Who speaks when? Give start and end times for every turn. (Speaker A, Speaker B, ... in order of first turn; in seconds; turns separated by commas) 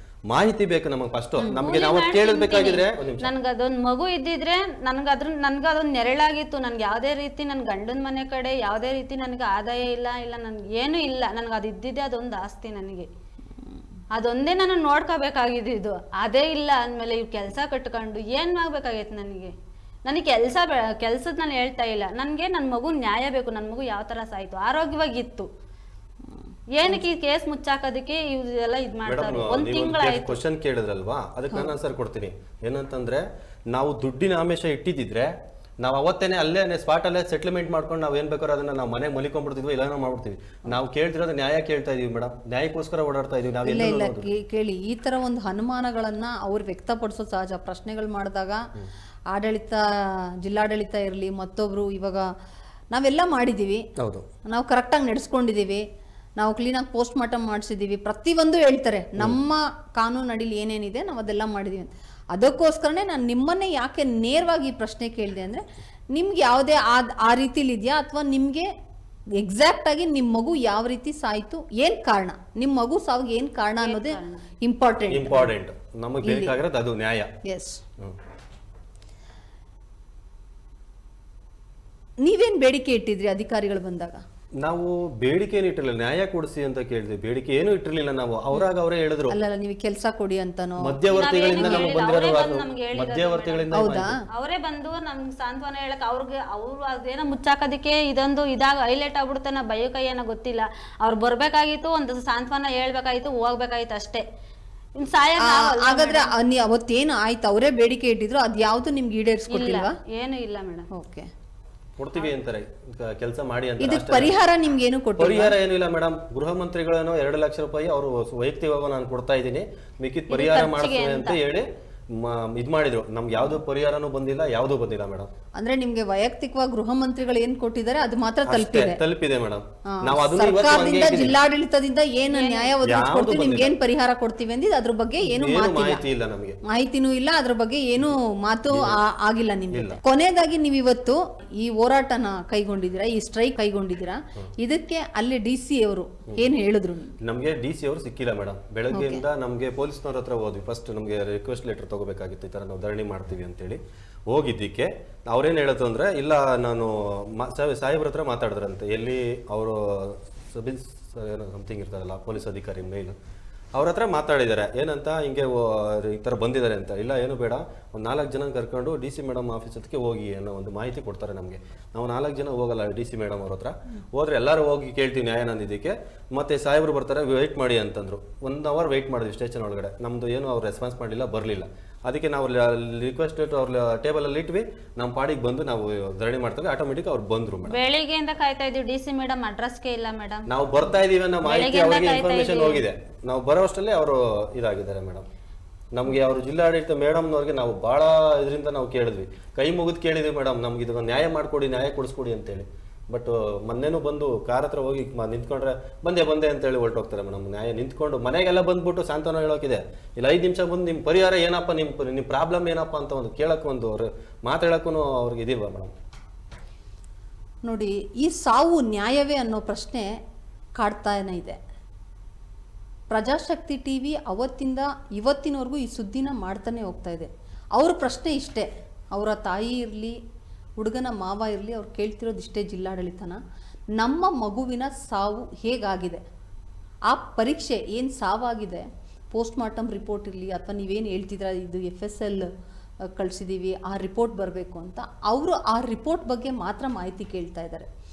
Speaker A: 0.3-3.3, Speaker B: 1.5-13.1, Speaker B: 14.1-19.5, Speaker B: 20.0-25.5, Speaker C: 26.3-27.0, Speaker B: 26.8-30.4, Speaker A: 29.0-44.3, Speaker C: 43.6-48.6, Speaker C: 49.3-52.2, Speaker C: 52.9-53.8, Speaker A: 54.0-54.2, Speaker C: 54.5-55.8, Speaker C: 56.4-65.6, Speaker C: 66.1-68.7, Speaker C: 69.4-75.5, Speaker B: 73.8-74.4, Speaker A: 75.1-77.3, Speaker C: 76.2-76.5, Speaker C: 77.4-77.8, Speaker C: 82.2-84.2, Speaker A: 84.6-89.3, Speaker C: 89.3-91.0, Speaker A: 90.8-94.1, Speaker B: 91.1-93.7, Speaker C: 91.6-91.9, Speaker C: 93.7-94.2, Speaker B: 94.3-104.2, Speaker B: 105.0-106.3, Speaker C: 105.4-110.0, Speaker B: 109.5-110.9, Speaker C: 110.9-111.3, Speaker A: 112.0-114.3, Speaker C: 113.8-115.5, Speaker A: 115.2-125.3, Speaker B: 120.3-121.4, Speaker C: 125.6-129.0, Speaker A: 128.4-131.4, Speaker C: 129.9-136.0, Speaker B: 132.3-132.8, Speaker A: 132.8-133.7, Speaker A: 135.2-136.6, Speaker C: 136.7-147.2, Speaker A: 138.7-139.0, Speaker A: 139.7-140.0, Speaker A: 147.2-163.2, Speaker C: 148.9-149.2, Speaker A: 163.7-187.8, Speaker B: 187.7-190.5, Speaker A: 190.5-195.2, Speaker B: 191.4-192.8, Speaker A: 195.9-215.9, Speaker C: 217.6-220.1, Speaker C: 220.8-221.6, Speaker C: 223.1-230.2, Speaker C: 230.8-233.4, Speaker C: 234.0-236.2, Speaker C: 237.1-242.5, Speaker C: 243.2-247.9